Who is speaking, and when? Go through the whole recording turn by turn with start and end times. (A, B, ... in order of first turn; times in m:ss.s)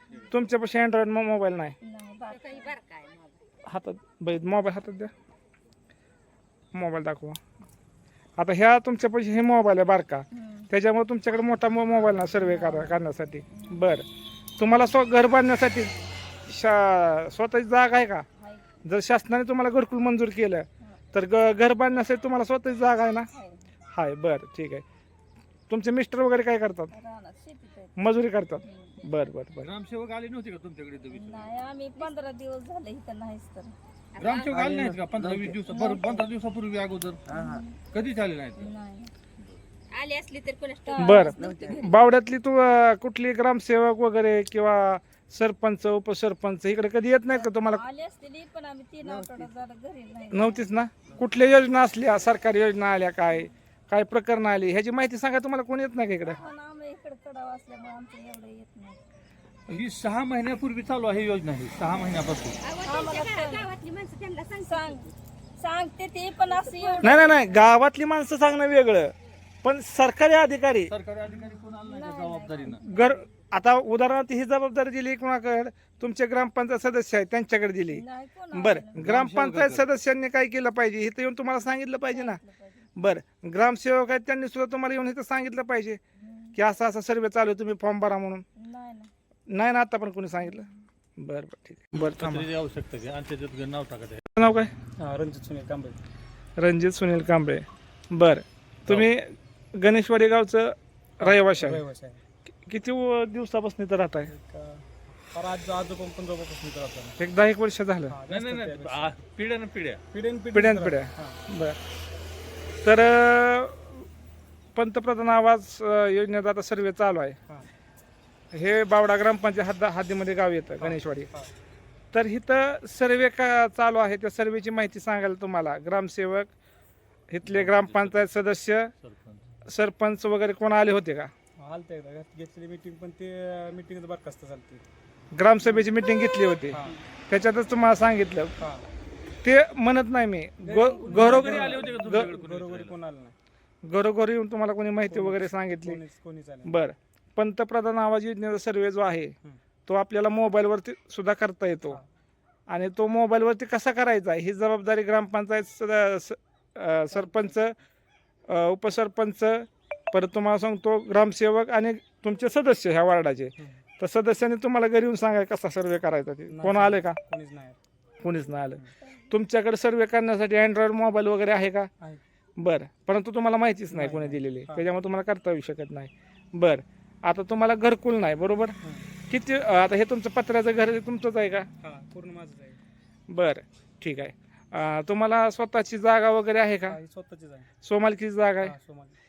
0:00.3-0:01.8 A
0:01.8-0:02.8 B
0:02.3-0:03.4 C
0:03.7-0:05.1 A
0:06.7-0:07.4 A
0:08.4-0:14.1 A
0:10.3-0:10.7 B
0:12.4-0:13.0 B
0:13.5-0:13.9 B
0:14.6-0:15.9 A
0:16.5-0:18.2 A
0:18.4-0:18.6 B
0:18.8-0:23.3 A
0:23.3-0:23.6 B
0:23.9-0:24.8 A
0:25.7-0:26.9 A
0:26.9-0:28.0 B
0:28.0-0:29.7 A
0:28.6-0:29.0 B
0:29.6-0:31.6 D
0:31.1-0:33.7 B
0:34.2-0:37.2 D
0:34.2-0:34.5 C
0:34.5-0:35.0 E
0:35.6-0:36.3 B
0:37.3-0:37.8 B
0:37.3-0:37.6 C
0:37.9-0:38.7 D
0:38.6-0:39.1 B
0:39.9-0:41.8 C
0:40.8-0:42.0 B
0:41.0-0:47.8 A
0:47.3-0:50.7 B
0:49.0-0:49.5 C
0:50.3-0:56.4 A
0:56.3-0:59.0 B
0:59.7-1:02.6 D
1:02.6-1:05.0 C
1:02.8-1:03.7 B
1:04.6-1:07.4 B
1:06.6-1:07.1 C
1:07.0-1:10.9 A
1:10.9-1:12.8 D
1:11.3-1:13.2 B
1:12.8-1:22.4 A
1:17.9-1:19.0 B
1:19.0-1:19.8 D
1:22.1-1:22.9 B
1:23.0-1:26.0 A
1:26.2-1:26.6 B
1:26.6-1:28.4 A
1:28.6-1:29.1 B
1:29.5-1:32.5 A
1:30.4-1:30.7 B
1:32.0-1:34.2 D
1:34.4-1:34.7 A
1:35.0-1:36.0 E
1:36.6-1:41.8 A
1:41.2-1:42.2 E
1:42.6-1:44.3 A
1:44.2-1:47.2 E
1:47.2-1:48.2 A
1:48.1-1:49.2 E
1:48.3-1:50.0 D
1:50.1-1:51.4 E
1:50.5-1:51.8 A
1:52.8-1:54.1 A
1:54.8-1:57.4 A
1:58.5-2:01.3 A
2:00.8-2:01.5 E
2:02.1-2:06.5 A
2:07.3-2:08.9 A
2:07.4-2:08.3 D
2:09.0-2:09.5 D
2:09.7-2:11.3 A
2:11.6-2:14.8 E
2:15.3-2:18.5 A
2:16.7-2:17.0 E
2:18.6-2:18.9 E
2:19.4-2:22.3 A
2:20.6-2:23.3 E
2:20.9-2:23.0 D
2:23.8-2:26.0 A
2:25.1-2:26.9 E
2:26.7-2:32.0 A
2:32.7-2:37.8 A
2:37.2-2:37.5 E
2:38.5-2:47.2 A
2:46.5-2:47.8 E
2:48.2-2:51.9 A
2:52.6-2:58.7 A
2:53.9-2:54.9 E
2:58.8-2:59.1 E
2:59.3-3:01.7 A
3:01.8-3:02.8 E
3:03.3-3:07.0 A
3:06.9-3:07.7 E
3:07.8-3:08.8 A
3:08.6-3:09.2 E